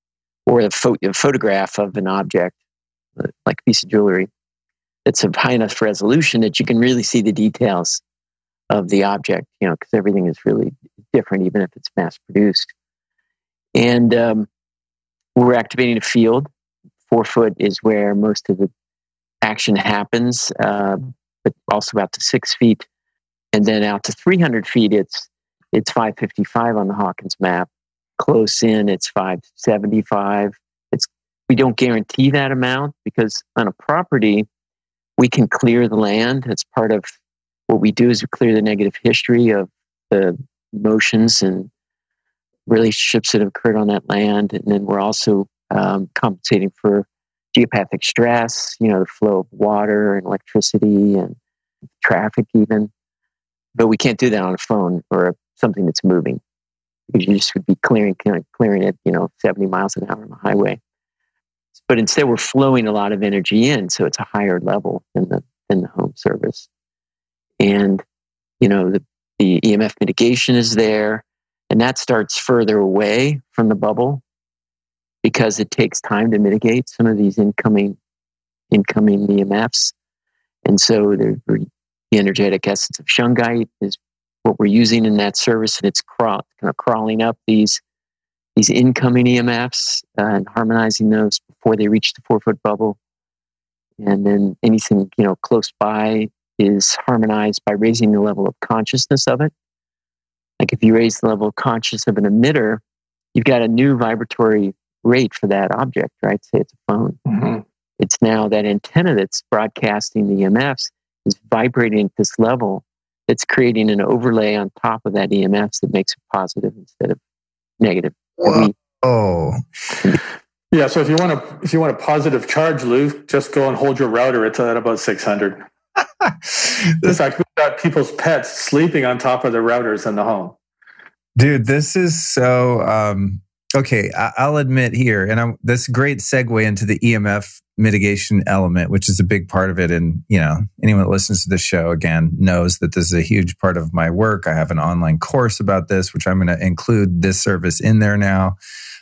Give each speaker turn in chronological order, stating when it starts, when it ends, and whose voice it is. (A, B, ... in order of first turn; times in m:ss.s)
0:00.5-0:02.6 A
0:03.2-0:04.3 A
0:05.1-0:08.0 A
0:08.7-0:12.7 A
0:13.8-0:14.5 A
0:15.4-0:16.5 A
0:17.1-0:18.7 A
0:19.4-0:22.9 A
0:23.5-0:34.5 A
0:35.2-0:37.0 A
0:37.7-0:41.7 A
0:42.7-0:51.4 A
0:52.0-0:52.9 A
0:53.8-0:56.4 A
0:57.1-1:00.8 A
1:01.9-1:06.7 A
1:07.6-1:08.0 A
1:08.6-1:14.2 A
1:15.2-1:18.0 A
1:18.7-1:19.9 A
1:20.6-1:27.8 A
1:28.6-1:33.0 A
1:34.0-1:39.5 A
1:40.6-1:42.8 A
1:43.4-1:47.2 A
1:47.3-1:47.6 B
1:48.0-1:57.2 A
1:57.8-1:58.8 A
1:58.4-1:59.6 C
2:00.7-2:05.6 B
2:06.2-2:07.2 C
2:07.0-2:10.6 B
2:11.4-2:28.6 C